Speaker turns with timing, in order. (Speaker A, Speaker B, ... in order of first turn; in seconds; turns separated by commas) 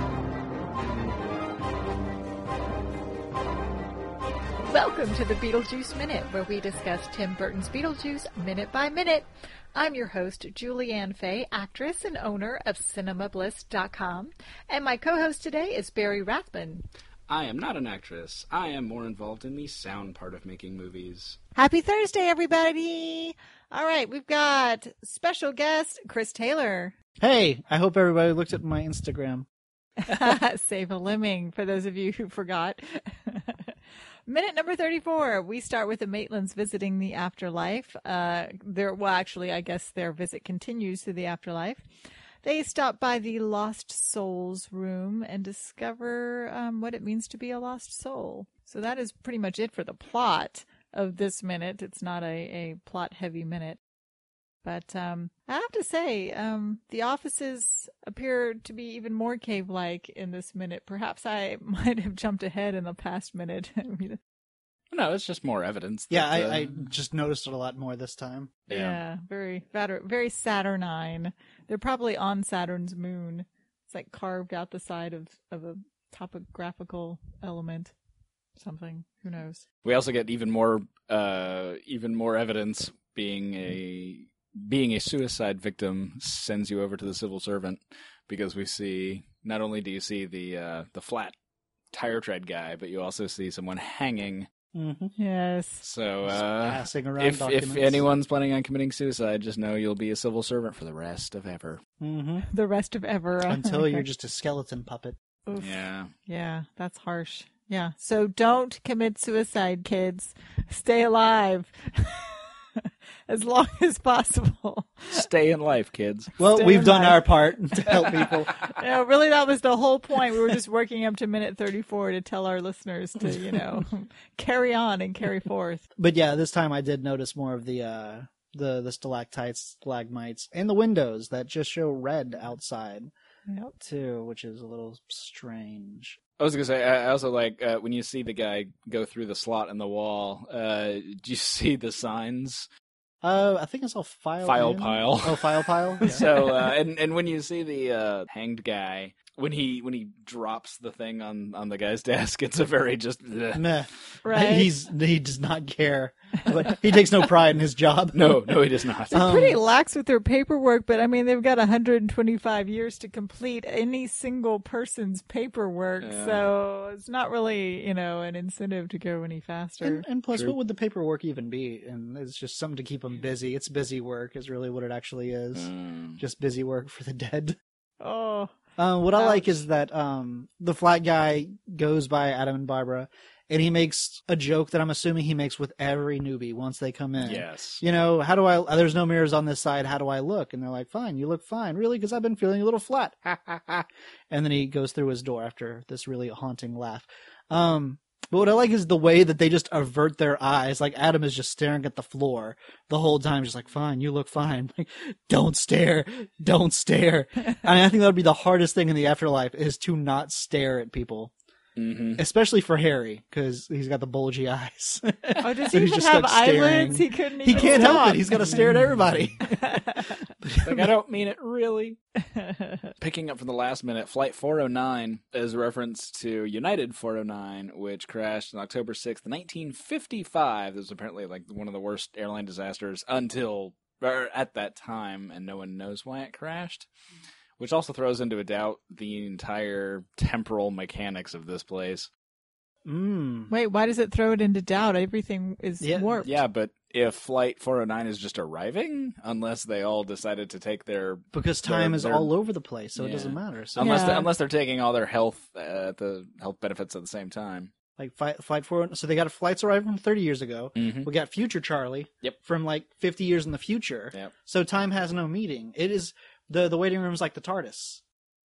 Speaker A: 4.6-16.9, Speaker B: 17.3-21.4, Speaker A: 21.6-26.9, Speaker C: 27.2-29.5, Speaker A: 30.0-41.8, Speaker A: 42.4-53.8, Speaker A: 54.6-64.2, Speaker B: 64.9-66.9, Speaker C: 66.1-68.6, Speaker B: 68.7-69.0, Speaker A: 68.7-77.9, Speaker A: 78.6-79.6, Speaker B: 79.8-91.3, Speaker B: 91.9-94.5, Speaker C: 94.7-95.1, Speaker A: 95.2-95.8, Speaker B: 95.8-101.8, Speaker C: 96.3-98.1, Speaker C: 102.0-102.5, Speaker A: 102.5-104.1, Speaker C: 103.5-105.2, Speaker A: 105.5-115.2, Speaker B: 105.5-106.1, Speaker B: 115.1-116.3, Speaker C: 116.4-118.5, Speaker A: 116.4-117.4, Speaker B: 118.1-118.4, Speaker A: 118.8-125.8, Speaker C: 126.0-133.1, Speaker A: 133.5-133.7, Speaker C: 133.8-136.2, Speaker B: 136.4-142.7, Speaker C: 143.2-146.5, Speaker B: 144.4-153.7, Speaker C: 153.5-158.4, Speaker A: 154.2-154.7, Speaker B: 158.1-159.3, Speaker C: 159.1-159.6, Speaker A: 159.1-170.1, Speaker B: 166.0-166.5, Speaker C: 169.8-177.6, Speaker B: 175.5-176.2, Speaker A: 178.0-178.5, Speaker C: 178.8-211.3, Speaker A: 179.1-179.7, Speaker B: 187.2-187.8, Speaker B: 211.8-212.2, Speaker C: 212.2-220.9, Speaker A: 215.4-218.8, Speaker B: 217.5-218.8, Speaker A: 219.4-220.2, Speaker B: 220.6-222.0, Speaker A: 222.2-222.9, Speaker B: 223.0-236.9, Speaker B: 237.6-242.1, Speaker C: 242.9-243.5, Speaker A: 243.5-246.4, Speaker C: 245.8-246.2, Speaker B: 246.2-252.3, Speaker C: 251.3-254.1, Speaker B: 252.9-257.7, Speaker A: 253.8-254.3, Speaker C: 258.0-268.0, Speaker B: 260.8-261.1